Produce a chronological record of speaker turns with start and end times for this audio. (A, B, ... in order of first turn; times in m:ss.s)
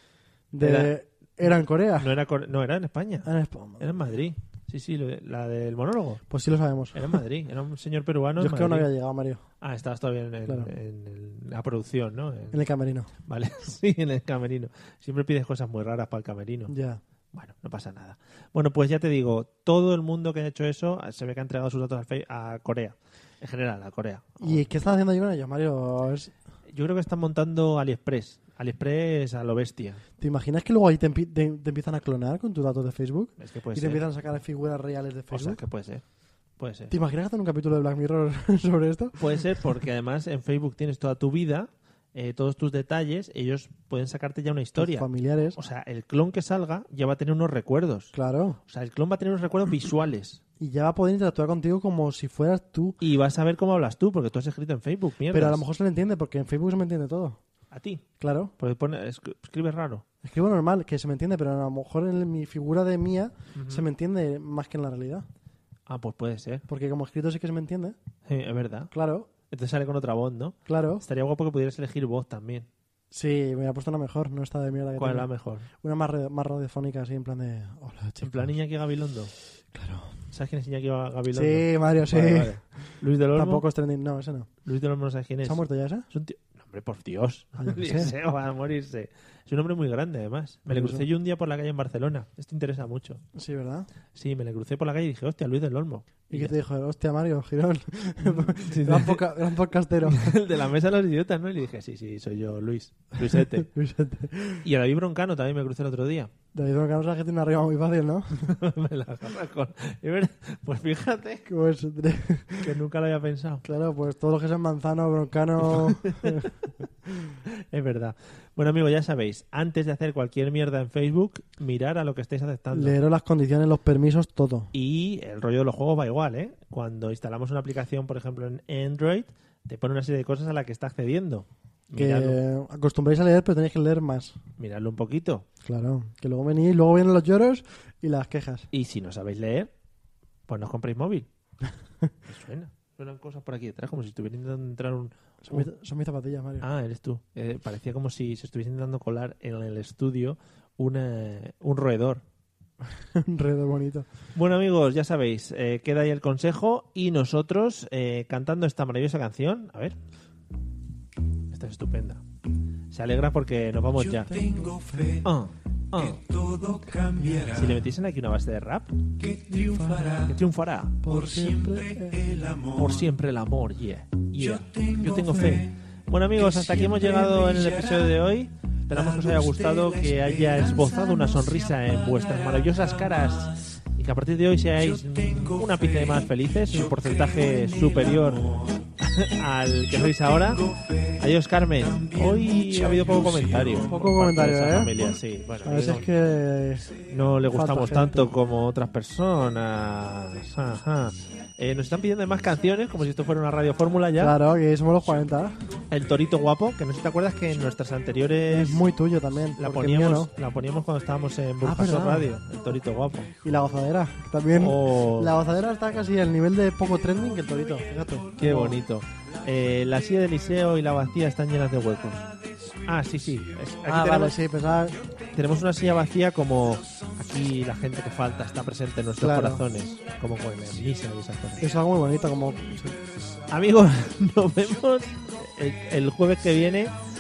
0:00.5-0:02.1 A
0:00.6-0:06.2 B
0:03.2-0:03.9 A
0:06.3-0:07.2 A
0:06.9-0:08.9 B
0:08.4-0:09.4 A
0:09.6-0:12.6 B
0:10.5-0:10.7 A
0:12.5-0:13.1 A
0:13.3-0:16.7 B
0:16.7-0:17.0 A
0:17.3-0:24.7 B
0:24.4-0:26.3 A
0:26.7-0:30.0 B
0:30.2-0:35.6 A
0:33.4-0:34.1 B
0:35.3-0:36.0 B
0:36.6-0:37.0 B
0:36.9-0:39.4 A
0:39.2-0:48.1 B
0:44.8-0:45.6 A
0:48.1-0:48.6 A
0:48.7-0:50.4 B
0:50.6-0:53.0 A
0:53.0-0:55.6 B
0:55.3-0:57.4 A
0:57.7-0:58.0 B
0:58.2-0:58.5 A
0:58.6-1:00.0 B
1:00.2-1:05.3 A
1:03.6-1:03.9 B
1:05.9-1:06.7 B
1:06.7-1:08.0 A
1:08.3-1:08.9 B
1:08.9-1:09.3 A
1:09.5-1:12.7 B
1:10.7-1:11.0 A
1:13.1-1:15.3 A
1:15.0-1:15.7 B
1:15.8-1:18.6 A
1:18.2-1:19.3 B
1:19.7-1:20.2 A
1:20.3-1:23.6 B
1:21.3-1:22.6 A
1:23.3-1:24.5 A
1:24.6-1:33.2 B
1:25.4-1:26.1 A
1:27.6-1:28.1 A
1:30.7-1:31.1 A
1:33.4-1:33.9 A
1:34.1-1:36.6 B
1:36.3-1:40.4 A
1:38.2-1:39.3 B
1:40.0-1:43.7 B
1:43.3-1:44.7 A
1:44.6-1:46.3 B
1:46.5-1:48.5 A
1:48.4-1:51.5 B
1:51.5-1:52.7 A
1:52.6-1:53.6 B
1:53.6-1:57.4 A
1:55.6-1:56.6 B
1:57.4-2:03.0 B
2:02.7-2:04.7 A
2:04.7-2:12.4 B
2:11.9-2:14.4 A
2:14.6-2:15.5 B
2:15.6-2:18.7 A
2:18.7-2:19.7 B
2:20.5-2:21.3 B
2:22.3-2:25.7 B
2:25.4-2:26.7 A
2:26.6-2:32.2 B
2:33.0-2:34.1 A
2:34.4-2:40.0 B
2:41.5-2:42.2 B
2:42.9-2:44.4 B
2:44.0-2:45.3 C
2:45.2-2:46.2 B
2:46.0-2:47.8 C
2:47.3-2:49.0 B
2:49.2-2:50.4 C
2:50.2-2:51.1 B
2:51.0-2:52.2 A
2:51.1-2:53.0 C
2:52.8-3:10.7 B
2:54.4-2:55.7 C
2:56.4-2:58.2 C
2:58.9-3:03.3 C
3:04.8-3:08.7 C
3:10.0-3:11.2 C
3:11.2-3:16.1 B
3:11.8-3:13.9 C
3:13.8-3:14.9 A
3:15.6-3:17.0 A
3:17.0-3:24.4 B
3:17.5-3:18.3 A
3:24.2-3:25.6 A
3:25.9-3:28.8 B
3:28.5-3:30.3 A
3:29.6-3:33.4 B
3:31.6-3:32.3 A
3:33.4-3:38.8 A
3:34.5-3:35.4 B
3:38.4-3:42.3 B
3:42.8-3:44.4 B
3:43.9-3:45.0 A
3:45.3-3:51.7 B
3:49.2-3:49.6 A
3:51.6-3:53.0 A
3:53.5-3:57.0 B